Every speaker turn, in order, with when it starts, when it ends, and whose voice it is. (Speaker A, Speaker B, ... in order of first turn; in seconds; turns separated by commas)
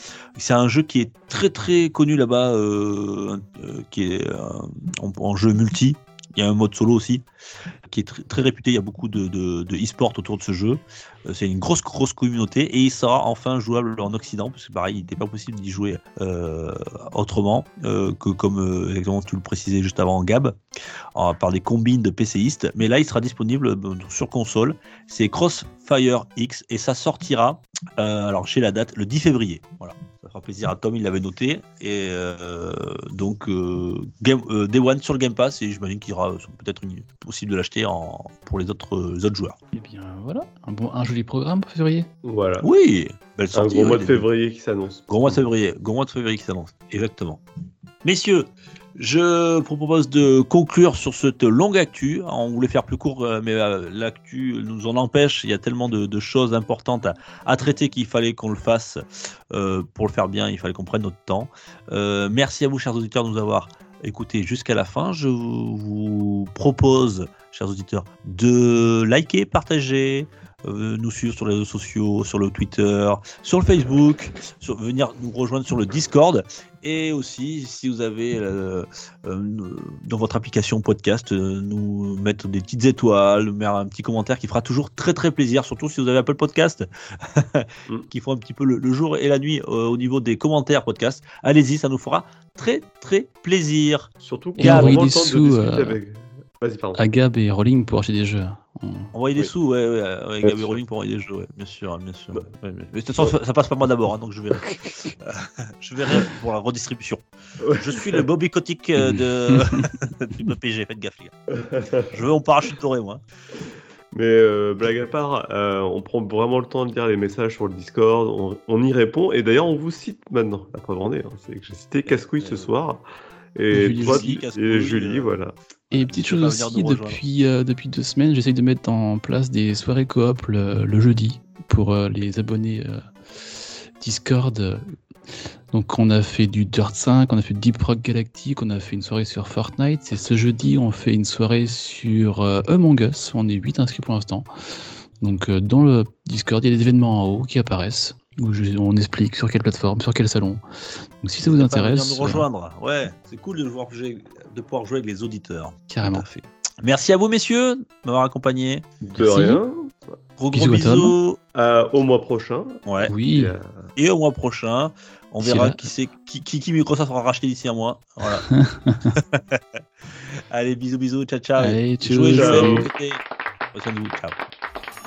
Speaker A: 0.3-7.2, Speaker A: 7.9-20.6, Speaker A: 21.1-39.6, Speaker B: 39.7-42.1, Speaker C: 42.2-42.7, Speaker A: 42.6-44.3, Speaker C: 43.5-45.4, Speaker A: 45.1-47.4, Speaker A: 48.0-95.1, Speaker C: 94.2-97.0, Speaker B: 94.6-96.0, Speaker B: 96.9-99.1, Speaker A: 99.1-111.3, Speaker C: 100.4-100.8, Speaker C: 107.6-108.2, Speaker B: 109.0-109.8, Speaker C: 111.5-112.2, Speaker A: 112.1-113.2, Speaker C: 114.1-123.0, Speaker A: 122.4-122.7, Speaker C: 123.5-125.5, Speaker B: 123.7-124.3, Speaker A: 123.9-125.3, Speaker B: 125.9-134.9, Speaker A: 125.9-127.2, Speaker B: 135.7-144.5, Speaker B: 145.2-150.6, Speaker B: 151.2-152.4, Speaker A: 151.5-156.2, Speaker B: 155.9-156.4, Speaker A: 156.8-158.8, Speaker C: 159.1-160.1, Speaker B: 159.2-159.6, Speaker A: 160.4-161.4, Speaker B: 160.5-161.1, Speaker C: 161.5-163.9, Speaker A: 162.8-163.1, Speaker B: 163.0-163.5, Speaker A: 163.9-168.5, Speaker B: 165.4-165.9, Speaker B: 168.5-169.1, Speaker A: 169.1-169.6, Speaker A: 170.5-174.4, Speaker B: 171.6-172.9, Speaker C: 172.3-172.9